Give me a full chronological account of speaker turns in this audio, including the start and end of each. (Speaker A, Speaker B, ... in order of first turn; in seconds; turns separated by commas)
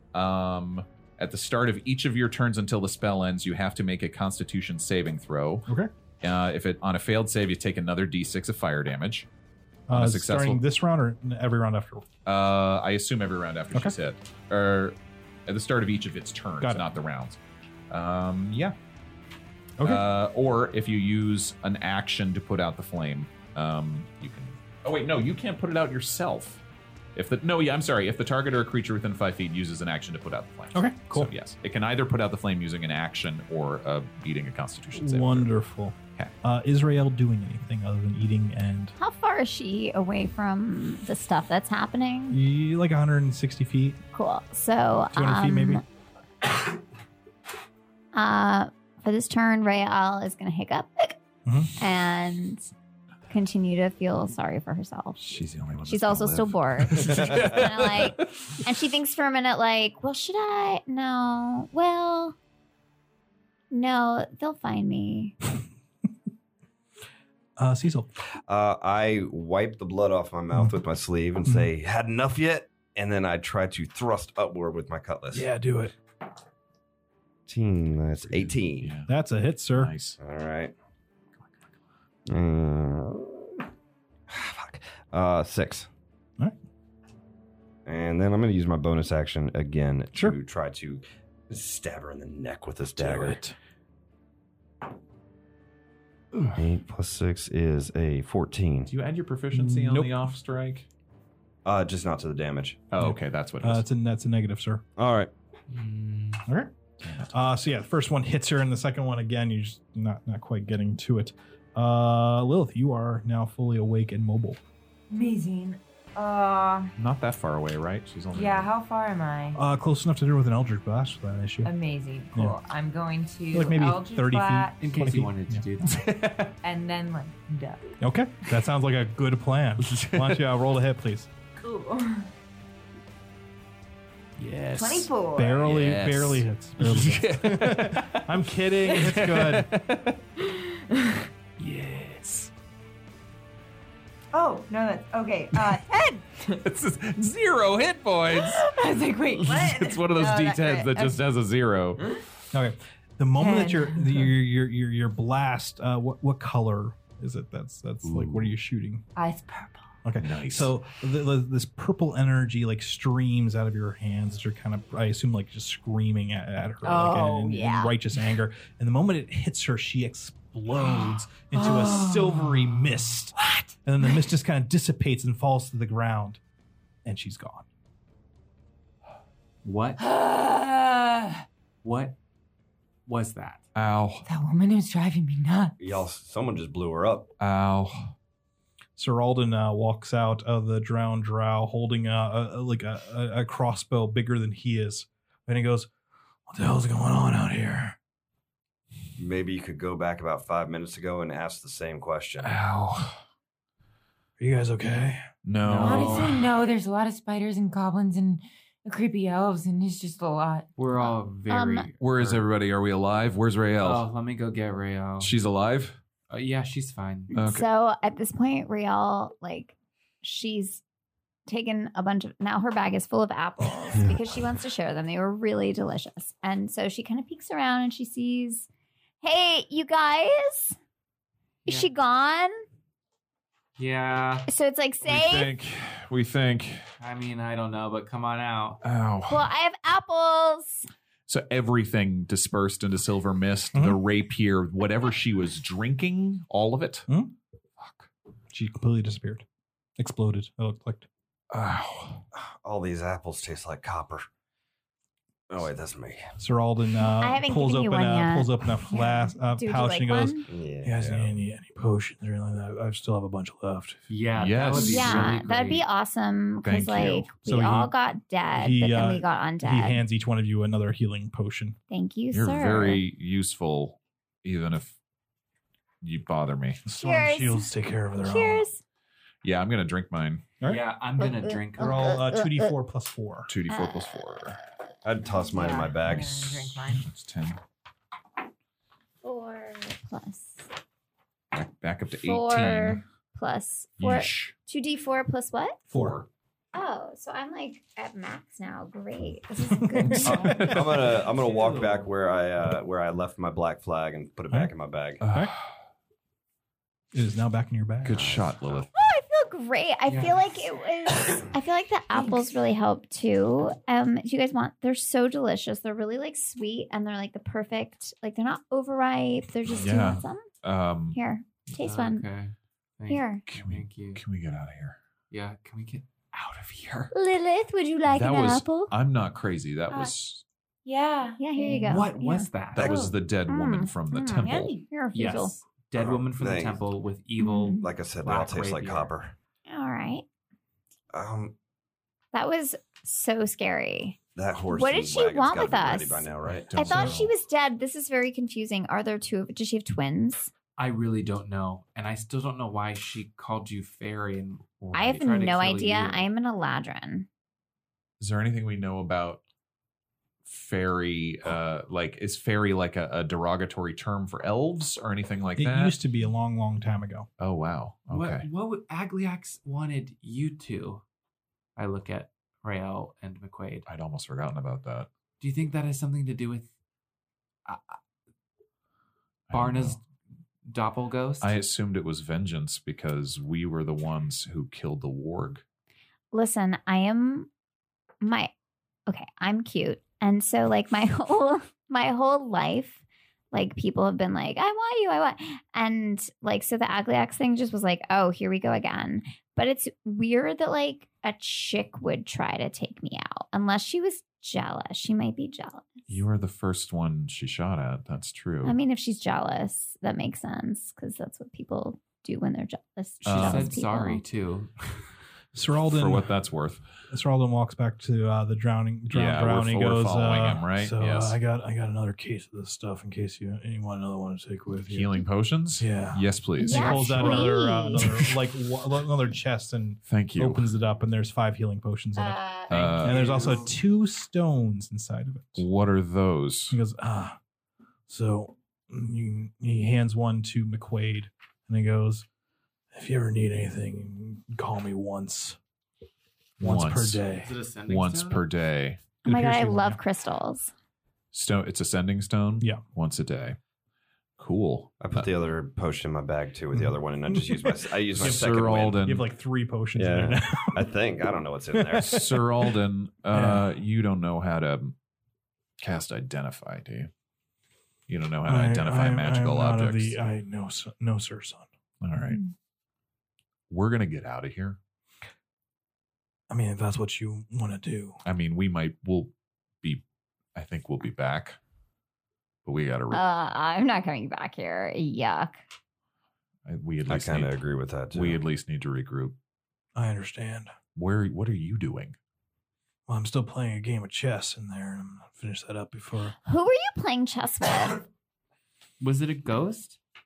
Speaker A: 0.1-5.7, Speaker A: 6.2-9.3, Speaker B: 9.9-12.1, Speaker A: 9.9-10.6, Speaker A: 12.2-17.4, Speaker B: 16.6-16.9, Speaker A: 17.9-18.7, Speaker B: 19.8-20.0, Speaker A: 19.8-26.6, Speaker A: 27.1-35.5, Speaker B: 30.7-31.3, Speaker B: 34.9-38.9, Speaker C: 39.0-42.4, Speaker B: 42.3-44.0, Speaker C: 44.1-45.8, Speaker B: 45.1-45.8, Speaker C: 48.1-51.2, Speaker B: 51.4-51.7, Speaker C: 51.8-52.7, Speaker C: 53.3-55.2, Speaker A: 55.2-58.6, Speaker C: 55.9-62.4, Speaker C: 63.7-65.3, Speaker B: 67.6-68.1, Speaker D: 68.5-75.5, Speaker B: 71.4-71.7, Speaker B: 75.3-75.9, Speaker D: 77.5-78.9, Speaker A: 78.2-79.1, Speaker B: 79.0-79.9, Speaker A: 79.8-80.2, Speaker D: 80.2-80.7, Speaker D: 82.3-83.6, Speaker D: 84.3-85.9, Speaker D: 87.8-93.4, Speaker B: 92.9-93.5, Speaker D: 96.5-98.9, Speaker A: 98.9-100.8, Speaker B: 99.5-100.3, Speaker D: 101.6-102.8, Speaker A: 102.9-103.8, Speaker B: 103.0-104.8, Speaker D: 105.0-105.3, Speaker E: 105.7-106.4, Speaker B: 106.5-106.7, Speaker A: 107.0-107.3, Speaker B: 107.3-114.6, Speaker F: 115.1-116.9, Speaker A: 117.0-118.7, Speaker F: 118.3-119.6, Speaker B: 119.5-121.7, Speaker F: 121.6-124.8, Speaker B: 123.5-125.6, Speaker E: 124.8-126.0, Speaker A: 125.9-126.5, Speaker F: 126.6-127.9, Speaker B: 128.0-131.3, Speaker A: 129.8-130.4, Speaker F: 131.6-132.3, Speaker A: 134.4-138.3, Speaker F: 134.7-135.6, Speaker B: 135.3-139.7, Speaker A: 138.8-140.2, Speaker F: 140.4-141.3, Speaker A: 141.6-142.5, Speaker F: 144.3-146.6, Speaker A: 145.5-145.8, Speaker A: 146.5-148.7, Speaker F: 148.3-151.2, Speaker A: 149.3-152.2, Speaker B: 152.5-159.0, Speaker F: 153.4-154.3, Speaker A: 158.0-158.5, Speaker F: 159.2-159.9, Speaker B: 160.0-176.4, Speaker A: 160.2-160.7, Speaker F: 166.8-167.9, Speaker F: 170.9-172.7, Speaker F: 173.4-174.2, Speaker B: 177.0-177.7, Speaker E: 179.6-180.0, Speaker F: 180.0-181.4, Speaker E: 181.8-182.2, Speaker E: 183.1-183.6, Speaker A: 183.7-184.2, Speaker F: 184.2-185.8, Speaker D: 185.8-187.3, Speaker A: 187.4-188.1, Speaker B: 189.0-195.9, Speaker B: 196.5-198.0, Speaker D: 199.2-202.5, Speaker A: 202.4-203.2, Speaker B: 204.4-205.3, Speaker A: 205.4-206.4, Speaker E: 205.6-206.4, Speaker F: 205.8-210.7, Speaker E: 210.8-212.4, Speaker C: 211.0-211.9, Speaker A: 212.0-214.1, Speaker E: 213.8-215.3, Speaker A: 215.2-216.0, Speaker E: 216.3-217.3, Speaker C: 217.3-220.8, Speaker A: 217.3-217.7, Speaker C: 221.4-228.7, Speaker C: 229.2-230.8, Speaker E: 231.6-231.9, Speaker C: 231.7-232.6, Speaker E: 233.8-234.5, Speaker C: 234.5-235.5, Speaker A: 235.0-236.8, Speaker E: 237.0-238.8, Speaker A: 238.8-239.5, Speaker C: 239.3-240.9, Speaker A: 241.3-247.1, Speaker B: 243.7-244.0, Speaker B: 247.1-247.3, Speaker A: 247.8-248.1, Speaker B: 248.5-249.4, Speaker B: 250.0-251.1, Speaker A: 251.5-252.2, Speaker D: 252.3-254.2, Speaker D: 255.5-256.3, Speaker B: 256.4-264.0, Speaker C: 257.0-260.4, Speaker D: 260.5-261.3, Speaker E: 264.1-265.8, Speaker A: 264.4-265.4, Speaker C: 264.7-270.0, Speaker A: 266.6-267.3, Speaker B: 267.4-267.9, Speaker B: 268.5-271.8, Speaker C: 271.9-273.0, Speaker A: 272.3-274.9, Speaker A: 276.0-276.8, Speaker B: 276.9-278.7, Speaker C: 276.9-278.8, Speaker A: 279.4-280.5, Speaker E: 280.6-282.1, Speaker C: 281.2-282.7, Speaker B: 281.8-283.5, Speaker A: 283.5-284.6, Speaker C: 283.7-284.5, Speaker D: 285.0-286.4, Speaker F: 285.4-287.1, Speaker A: 285.7-287.6, Speaker C: 289.2-290.7, Speaker A: 291.5-293.0, Speaker C: 292.2-295.8, Speaker A: 294.0-294.5, Speaker A: 295.9-296.3, Speaker B: 295.9-296.2, Speaker C: 296.7-300.6, Speaker B: 299.8-300.8, Speaker D: 300.2-305.2, Speaker A: 300.4-301.2, Speaker E: 301.3-302.1, Speaker A: 305.2-305.7, Speaker B: 307.1-308.2, Speaker A: 308.0-308.9, Speaker D: 308.1-308.8, Speaker C: 308.9-320.5, Speaker E: 310.1-310.5, Speaker A: 319.8-321.2, Speaker C: 321.1-322.3, Speaker E: 321.8-324.2, Speaker C: 323.1-323.4, Speaker A: 323.5-325.0, Speaker E: 325.3-327.1, Speaker C: 327.1-328.9, Speaker A: 328.1-330.4, Speaker F: 330.8-333.1, Speaker C: 331.4-332.5, Speaker E: 331.8-332.9, Speaker A: 332.7-334.7, Speaker C: 333.5-335.5, Speaker F: 334.4-334.8, Speaker E: 335.1-339.1, Speaker D: 336.0-336.8, Speaker C: 337.4-337.8, Speaker D: 337.8-339.3, Speaker C: 339.7-340.2, Speaker D: 341.1-341.5, Speaker C: 342.3-344.2, Speaker D: 344.3-347.2, Speaker C: 344.7-350.5, Speaker A: 346.4-347.3, Speaker E: 350.8-356.3, Speaker C: 354.9-357.3, Speaker A: 358.2-359.4, Speaker A: 360.4-365.9, Speaker B: 365.6-367.3, Speaker A: 367.4-368.5, Speaker E: 368.1-371.0, Speaker E: 371.8-373.9, Speaker A: 373.9-375.1, Speaker E: 375.4-376.7, Speaker E: 377.6-378.0, Speaker A: 379.5-380.0, Speaker E: 379.5-380.0, Speaker E: 380.6-381.6, Speaker A: 381.4-385.6, Speaker C: 386.3-387.5, Speaker C: 388.2-388.5, Speaker C: 389.1-405.9, Speaker A: 406.1-408.8, Speaker C: 408.6-414.2, Speaker A: 413.2-413.7, Speaker E: 413.3-415.0, Speaker B: 415.5-416.3, Speaker A: 415.9-416.8, Speaker B: 417.1-425.2, Speaker A: 419.1-421.4, Speaker A: 424.9-428.3, Speaker B: 425.8-432.4, Speaker C: 426.6-428.1, Speaker A: 430.1-430.7, Speaker C: 432.1-433.6, Speaker A: 432.7-433.4, Speaker E: 432.8-433.6, Speaker B: 433.0-435.6, Speaker A: 435.6-436.8, Speaker B: 436.7-437.4, Speaker B: 438.1-442.2, Speaker B: 442.9-445.6, Speaker A: 446.6-447.2, Speaker B: 446.6-447.5, Speaker E: 447.3-448.4, Speaker A: 447.9-449.0, Speaker B: 449.2-450.0, Speaker C: 449.2-450.7, Speaker A: 451.3-453.6, Speaker A: 454.4-455.3, Speaker D: 455.0-459.0, Speaker B: 456.7-460.9, Speaker A: 458.1-459.2, Speaker D: 459.9-462.2, Speaker B: 461.7-462.8, Speaker A: 462.0-464.9, Speaker B: 463.3-463.7, Speaker A: 465.8-467.1, Speaker A: 468.1-470.2, Speaker B: 468.4-471.7, Speaker A: 472.0-472.4, Speaker A: 473.7-474.8, Speaker B: 476.5-478.2, Speaker A: 478.2-480.0, Speaker A: 480.5-481.6, Speaker A: 482.6-483.2, Speaker C: 483.1-485.6, Speaker A: 486.6-487.6, Speaker D: 487.1-488.4, Speaker A: 488.1-489.4, Speaker B: 489.9-490.7, Speaker A: 490.9-492.2, Speaker B: 493.1-496.3, Speaker C: 496.4-498.0, Speaker E: 499.0-500.0